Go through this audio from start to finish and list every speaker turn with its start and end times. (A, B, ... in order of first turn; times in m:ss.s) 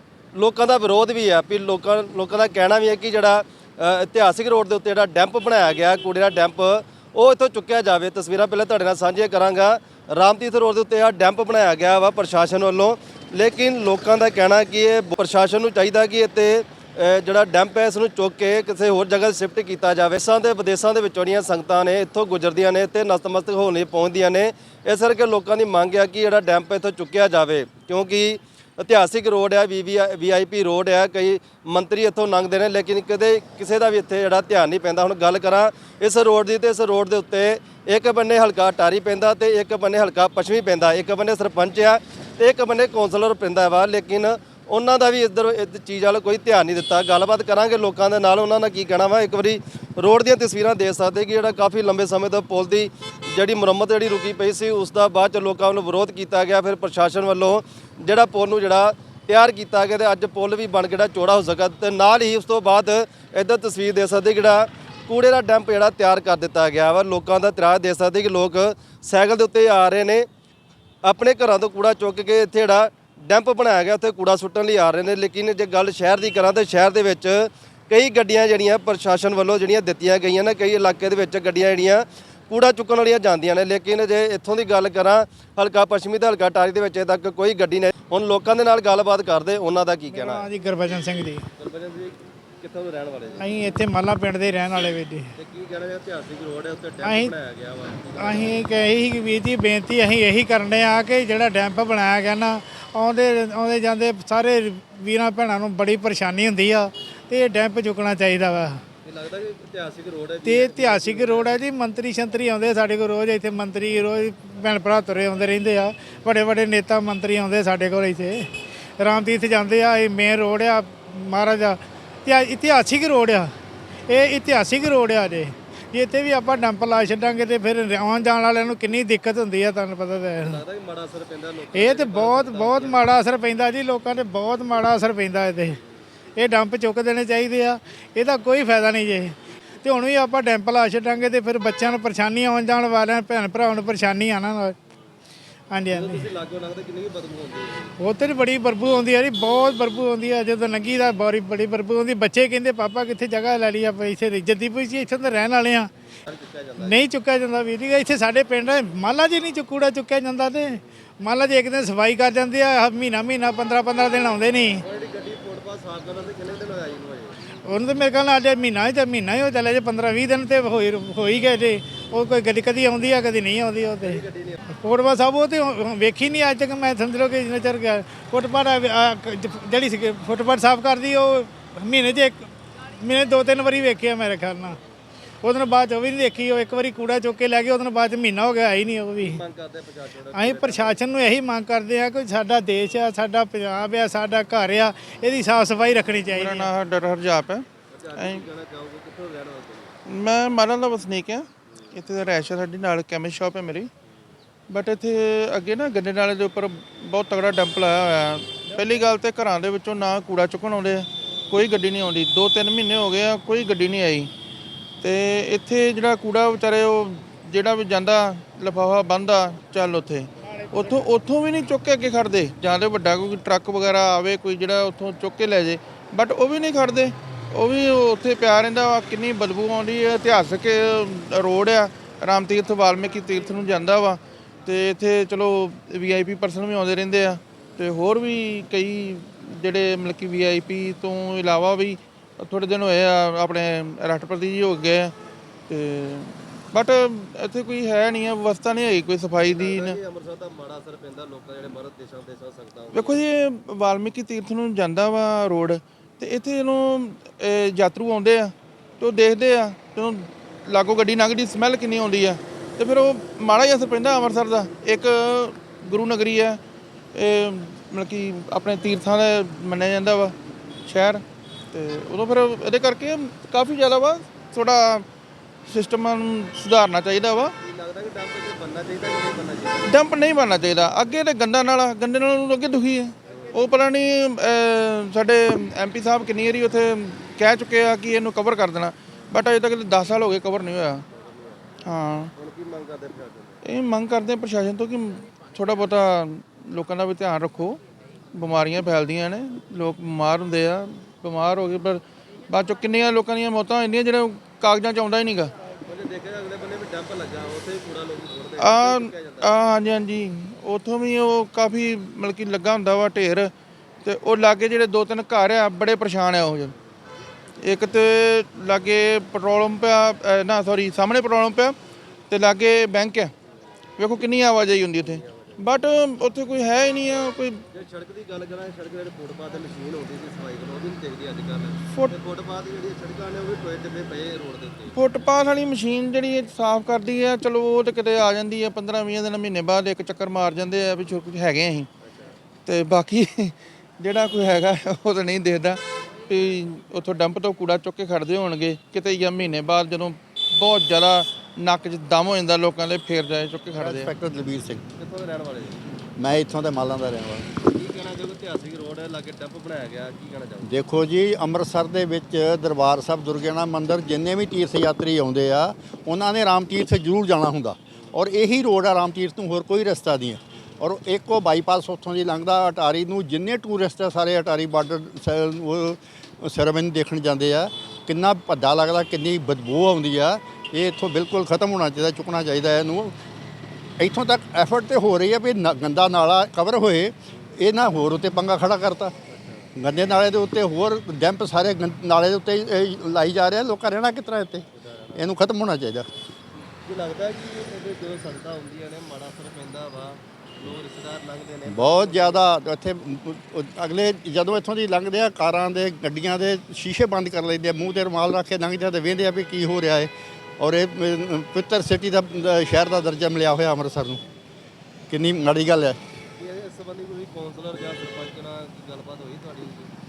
0:00.3-1:10.2 A
1:11.0-1:33.5 A
1:30.1-1:31.4 B
1:33.4-1:35.3 B
1:35.4-1:38.7 A
1:37.0-1:37.3 B
1:38.2-1:48.8 B
1:49.0-1:51.6 A
1:50.4-1:58.5 B
1:59.0-2:03.5 B
2:04.1-2:10.6 B
2:10.4-2:13.1 A
2:11.7-2:15.8 B
2:16.4-2:24.8 B
2:25.7-2:26.3 B
2:25.9-2:27.9 A
2:28.0-2:35.9 B
2:36.2-2:37.0 A
2:36.8-2:44.8 B
2:44.8-2:47.4 A
2:47.6-2:54.2 B
2:54.0-2:54.6 A
2:54.8-3:04.8 B
3:05.4-3:09.4 B
3:09.2-3:11.0 A
3:10.3-3:16.7 B
3:16.3-3:18.4 C
3:17.9-3:19.9 A
3:20.0-3:23.9 C
3:24.7-3:34.3 C
3:35.0-4:05.1 C
3:40.4-3:40.9 B
4:05.7-4:10.0 C
4:09.5-4:13.2 A
4:12.9-4:26.6 C
4:27.1-4:30.3 C
4:30.8-4:35.0 C
4:35.7-4:37.5 C
4:37.6-4:39.9 A
4:39.8-4:51.0 C
4:43.3-4:43.6 A
4:51.1-4:51.7 A
4:51.8-4:52.3 C
4:52.3-4:53.6 A
4:53.6-4:57.8 C
4:58.3-5:05.5 C
5:05.8-5:09.5 A
5:08.6-5:13.5 C
5:14.0-5:16.7 C
5:17.6-5:21.7 C
5:22.3-5:23.3 C
5:24.0-5:27.6 C
5:25.0-5:25.6 A
5:27.7-5:35.0 A
5:34.9-5:41.9 C
5:42.6-5:54.1 C
5:53.7-5:54.8 D
5:54.9-5:55.8 A
5:56.2-5:57.4 D
5:57.6-6:00.7 A
6:00.6-6:23.1 D
6:24.0-6:29.1 D
6:29.3-6:29.7 A
6:29.8-6:36.1 D
6:34.7-6:35.2 A
6:36.7-6:42.5 A
6:41.6-6:54.2 D
6:55.1-6:56.0 D
6:56.4-6:59.9 A